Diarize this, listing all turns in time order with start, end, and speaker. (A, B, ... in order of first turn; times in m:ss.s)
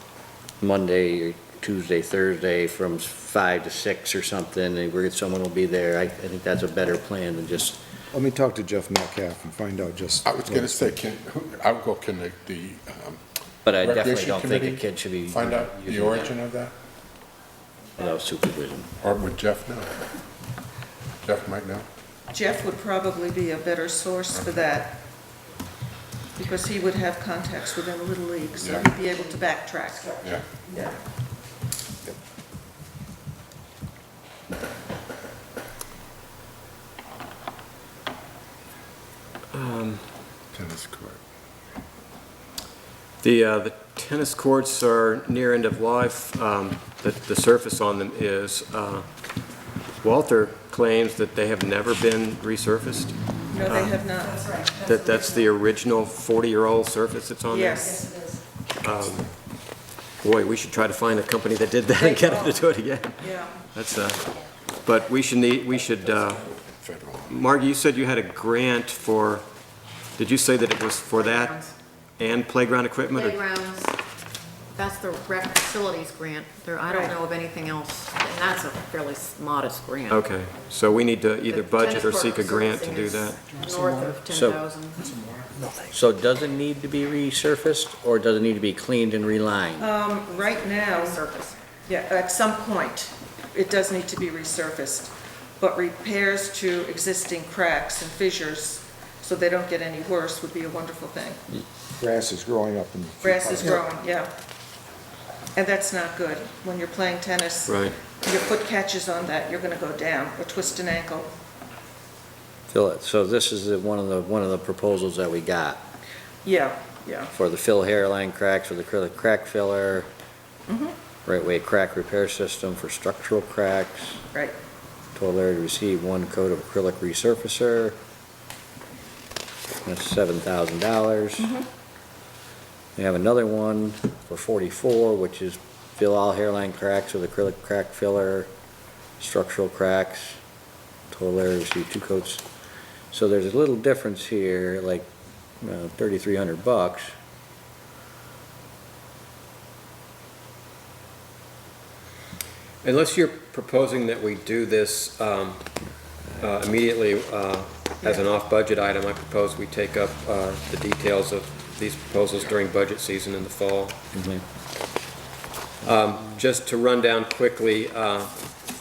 0:00.6-0:07.8 A
0:08.1-0:10.9 B
0:10.2-0:13.2 C
0:13.6-0:16.4 A
0:13.8-0:16.7 C
0:18.0-0:18.9 A
0:19.0-0:19.9 C
0:21.2-0:21.8 C
0:22.3-0:25.0 D
0:24.3-0:24.7 C
0:26.4-0:31.0 D
0:28.6-0:28.9 C
0:30.2-0:30.5 C
0:39.5-0:40.0 E
0:40.5-0:41.2 C
0:43.2-0:49.0 E
0:50.0-0:54.0 E
0:53.5-0:54.4 D
0:54.7-0:58.0 E
0:57.5-0:58.1 D
0:58.8-0:59.3 E
1:00.2-1:04.2 E
1:02.0-1:02.6 D
1:03.2-1:03.5 D
1:04.8-1:06.5 E
1:06.6-1:07.4 C
1:07.3-1:09.4 E
1:10.2-1:11.6 E
1:11.1-1:11.7 F
1:12.2-1:13.4 E
1:13.1-1:13.9 F
1:14.7-1:20.2 F
1:16.9-1:17.1 D
1:20.1-1:23.5 E
1:21.5-1:25.1 F
1:24.3-1:24.6 A
1:25.9-1:29.9 A
1:29.8-1:31.2 D
1:30.3-1:31.6 F
1:31.8-1:41.4 D
1:42.0-1:43.8 B
1:43.2-1:44.3 D
1:45.5-1:51.3 D
1:47.6-1:48.0 E
1:52.7-1:55.8 A
1:56.4-1:57.3 D
1:57.3-2:00.1 A
2:00.7-2:01.0 D
2:01.2-2:04.2 A
2:05.1-2:08.0 A
2:09.8-2:11.6 A
2:11.4-2:11.6 D
2:13.0-2:18.5 A
2:19.2-2:20.4 A
2:21.1-2:22.4 A
2:23.1-2:25.1 A
2:25.6-2:27.1 A
2:32.8-2:35.6 E
2:36.4-2:44.0 E
2:44.1-2:44.4 A
2:45.8-2:48.3 E